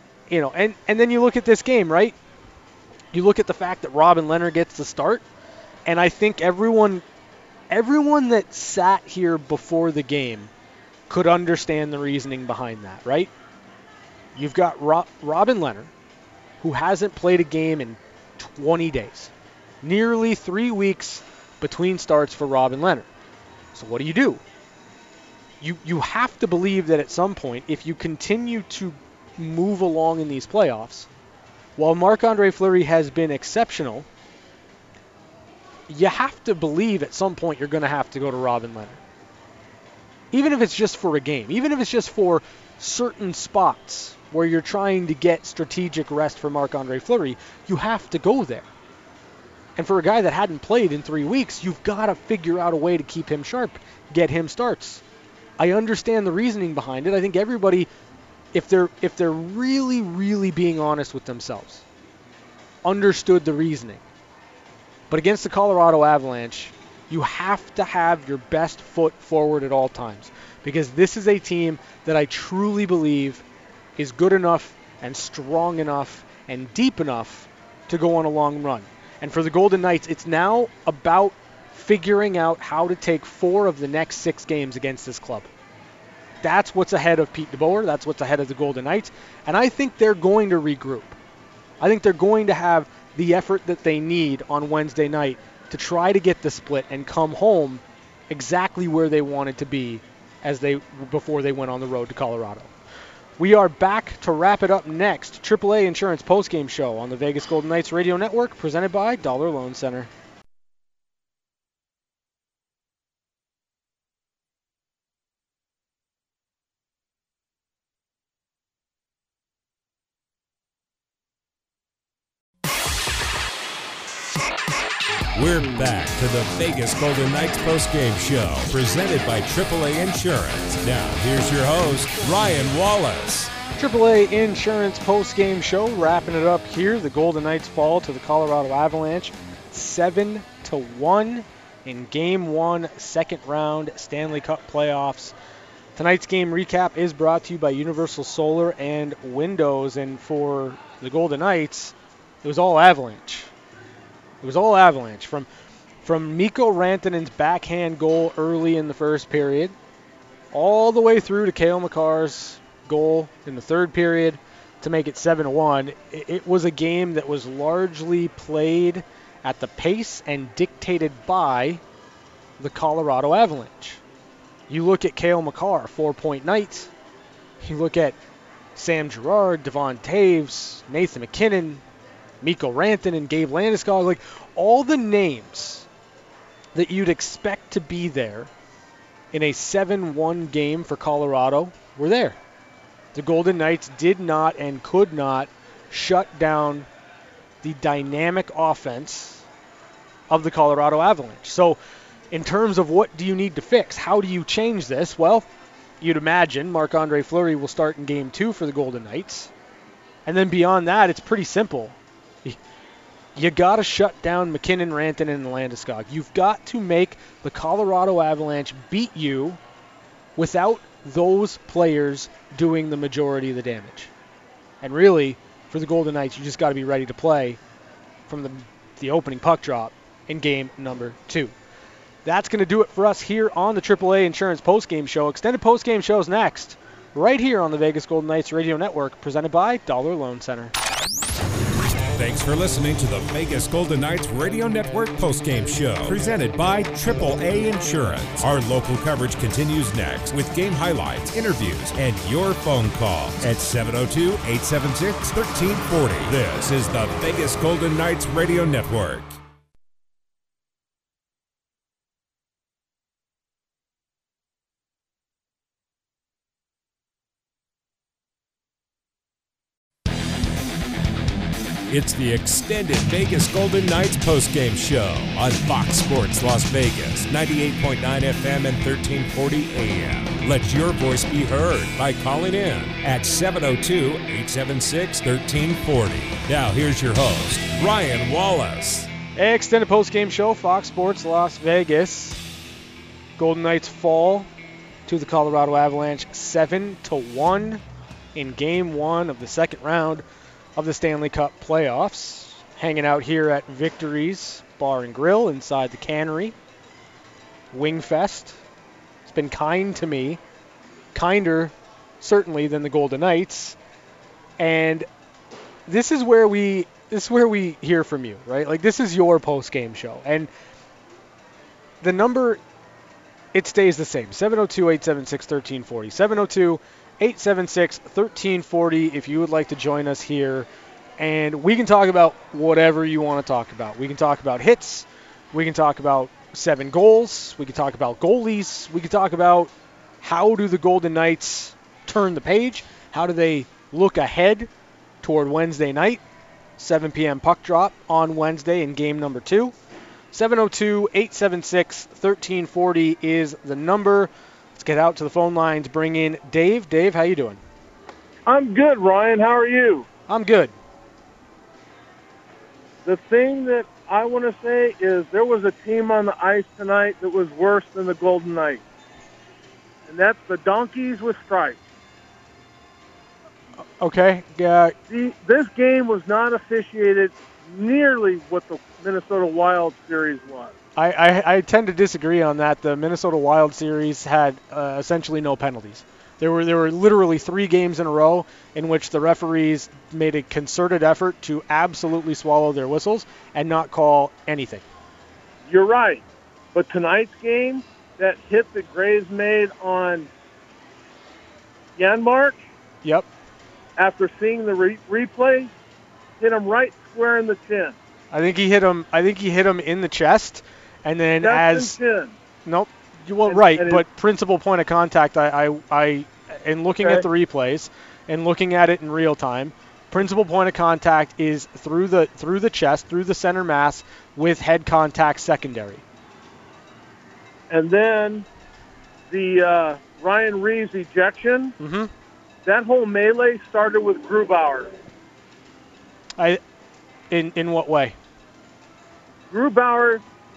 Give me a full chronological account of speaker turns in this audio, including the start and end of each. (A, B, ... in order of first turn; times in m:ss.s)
0:00.3-0:02.2 A
0:03.1-0:05.2 A
0:05.9-0:07.0 A
0:07.7-0:10.5 A
0:11.1-0:13.3 A
0:14.4-0:15.9 A
0:16.6-0:19.3 A
0:19.8-0:23.1 A
0:23.7-0:24.4 A
0:25.6-0:31.1 A
0:31.8-0:34.1 A
0:35.9-0:39.0 A
0:40.3-0:48.7 A
0:49.8-0:55.0 A
0:55.6-0:57.9 A
0:58.5-1:01.8 A
1:02.8-1:04.0 A
1:05.1-1:13.4 A
1:14.0-1:25.5 A
1:26.4-1:31.2 A
1:31.8-1:42.7 A
1:43.4-1:50.1 A
2:05.4-2:13.5 B
2:13.8-2:25.3 A
2:26.0-2:33.5 A
2:34.4-2:35.5 A
2:36.0-2:39.8 A
2:40.5-2:51.8 A
2:52.6-2:54.0 A
2:54.7-2:56.9 A
2:57.6-2:58.2 A
2:58.8-3:01.8 A
3:02.4-3:05.9 A
3:06.8-3:08.5 A
3:09.3-3:12.4 A
3:13.2-3:16.9 A
3:17.6-3:19.4 A
3:20.3-3:21.8 A
3:22.3-3:25.5 A
3:26.0-3:29.5 A
3:30.3-3:32.6 A
3:33.4-3:39.6 A
3:40.4-3:44.1 A
3:44.8-3:47.6 A
3:48.3-3:51.5 A
3:52.2-4:00.7 A
4:02.2-4:19.4 B
4:31.9-4:49.1 B
4:49.4-4:52.4 A
4:53.4-4:54.5 A
4:55.1-4:57.8 A
4:58.4-5:00.2 A
5:00.8-5:06.6 A
5:07.7-5:08.6 A
5:09.3-5:10.4 A
5:11.1-5:13.8 A
5:14.6-5:15.1 A
5:15.9-5:20.5 A
5:22.0-5:22.6 A
5:23.5-5:30.7 A
5:31.2-5:44.7 A
5:45.2-5:46.2 A
5:46.8-5:49.7 A
5:50.3-5:57.6 A
5:58.5-6:00.1 C
6:00.3-6:00.7 A
6:03.0-6:08.8 C
6:10.1-6:11.8 C
6:14.0-6:15.0 A
6:15.1-6:20.7 C
6:21.0-6:34.8 A
6:35.7-6:40.3 C
6:42.0-6:42.6 C
6:44.0-6:45.7 C
6:46.4-6:48.0 C
6:48.3-6:52.0 A
6:51.4-6:52.4 C
6:52.6-7:06.0 A
6:53.5-6:54.0 C
7:07.7-7:08.4 C
7:09.3-7:11.8 C
7:11.8-7:12.1 A
7:12.6-7:14.9 C
7:17.3-7:18.2 A
7:19.5-7:20.2 C